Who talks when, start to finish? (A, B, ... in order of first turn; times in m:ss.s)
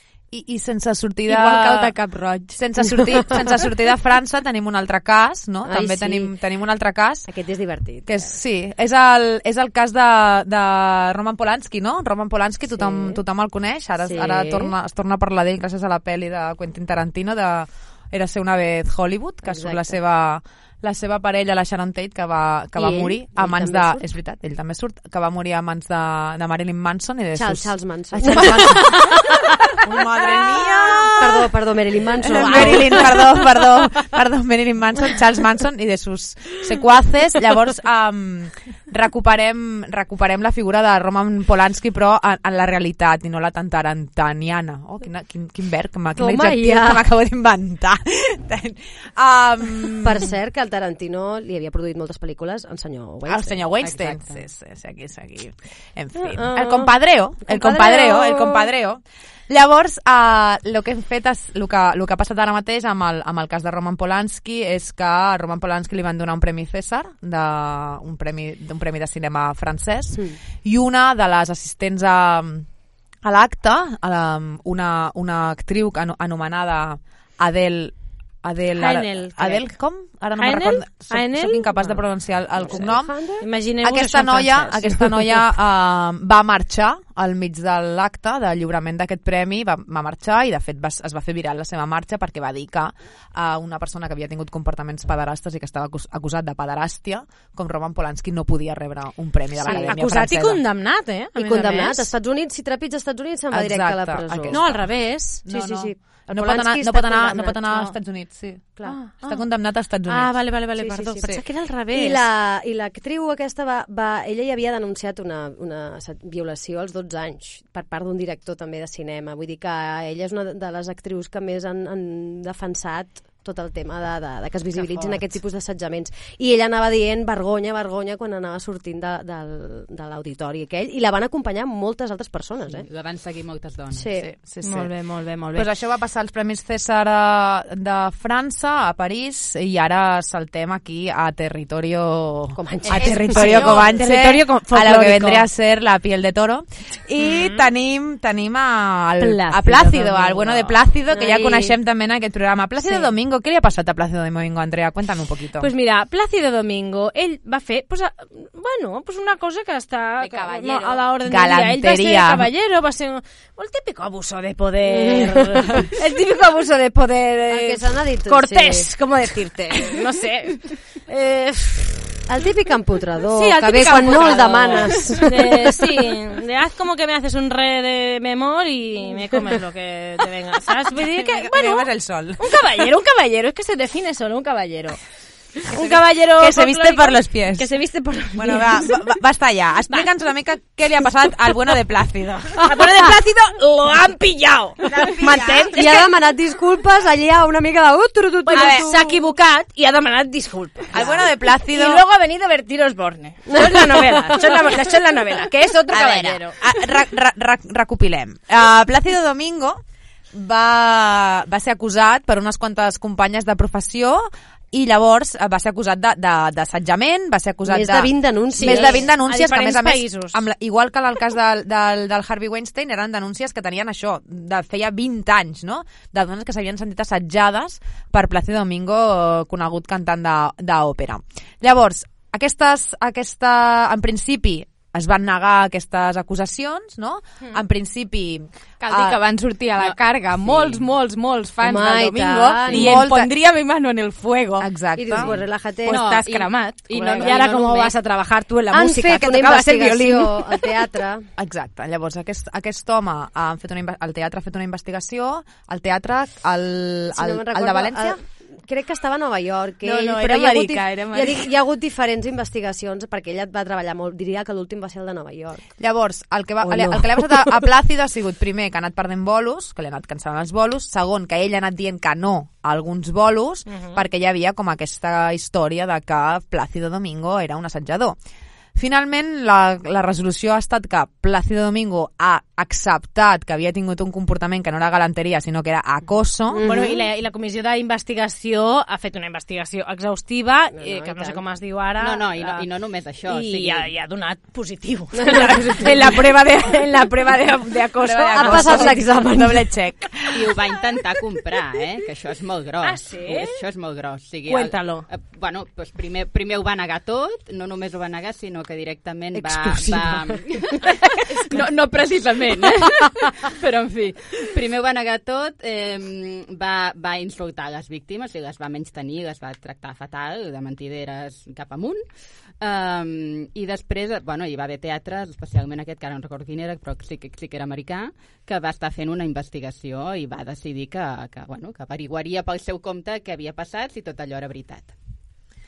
0:00.3-0:01.9 A
0:01.3-0:02.6 B
0:02.5-0:07.3 A
0:05.6-0:06.3 C
0:07.3-0:08.4 C
0:08.0-0:31.5 A
0:12.8-0:13.2 C
0:14.0-0:14.7 C
0:19.5-0:20.0 C
0:22.8-0:24.0 C
0:27.3-0:29.4 C
0:31.1-0:33.4 C
0:32.2-0:50.3 A
0:32.4-0:33.0 D
0:46.2-0:47.0 C
0:50.0-0:53.6 C
0:53.2-1:12.7 A
0:53.8-0:54.4 E
0:56.2-0:58.7 C
1:13.2-1:23.1 A
1:18.7-1:19.7 D
1:20.4-1:21.9 D
1:22.6-1:23.4 C
1:23.4-1:25.4 D
1:23.8-1:40.6 A
1:39.6-1:40.0 C
1:39.6-1:42.1 D
1:41.4-1:44.6 C
1:43.5-1:50.4 A
1:44.5-1:45.9 D
1:45.5-1:47.9 C
1:48.8-1:49.4 D
1:50.0-1:52.2 D
1:50.7-1:51.4 C
1:51.9-2:12.9 C
2:12.7-2:14.1 E
2:13.9-2:14.3 C
2:14.2-2:14.9 A
2:14.6-2:15.7 D
2:15.5-2:35.7 A
2:22.5-2:23.8 C
2:22.9-2:25.5 D
2:23.0-2:23.8 B
2:27.2-2:27.7 D
2:29.2-2:30.5 D
2:31.1-2:31.7 C
2:35.6-2:52.2 D
2:41.2-2:42.5 A
2:44.8-2:45.8 C
2:47.5-2:48.9 C
2:52.3-2:55.8 C
2:53.3-3:05.0 D
3:01.0-3:02.4 A
3:05.6-3:09.0 D
3:05.7-3:07.7 A
3:08.3-3:12.7 A
3:12.6-3:16.1 D
3:12.8-3:13.0 C
3:15.3-3:19.1 C
3:18.4-3:26.6 D
3:18.5-3:19.2 A
3:20.9-3:22.0 A
3:23.5-3:24.3 C
3:25.9-3:29.8 A
3:30.3-3:59.2 A
3:37.6-3:39.1 C
3:38.5-3:40.4 D
3:58.8-4:04.7 B
3:59.8-4:00.8 E
4:01.6-4:03.0 C
4:02.7-4:03.3 A
4:04.6-4:05.3 A
4:05.0-4:06.0 C
4:05.8-4:07.4 B
4:05.9-4:08.0 E
4:07.2-4:10.2 D
4:08.7-4:11.3 C
4:09.8-4:10.3 B
4:11.4-4:18.2 A
4:17.1-4:25.7 C
4:19.8-4:21.5 B
4:25.8-4:38.2 A
4:26.6-4:27.6 C
4:33.7-4:34.0 D
4:38.8-4:46.6 A
4:46.5-4:47.0 C
4:46.6-4:52.7 D
4:50.7-4:51.4 C
4:52.0-4:53.9 E
4:53.2-4:59.1 D
4:55.2-4:55.8 C
4:58.0-5:00.4 A
4:58.4-4:59.7 C
5:00.3-5:22.0 E
5:02.8-5:03.6 D
5:04.4-5:05.1 D
5:09.3-5:10.4 C
5:22.6-5:34.9 E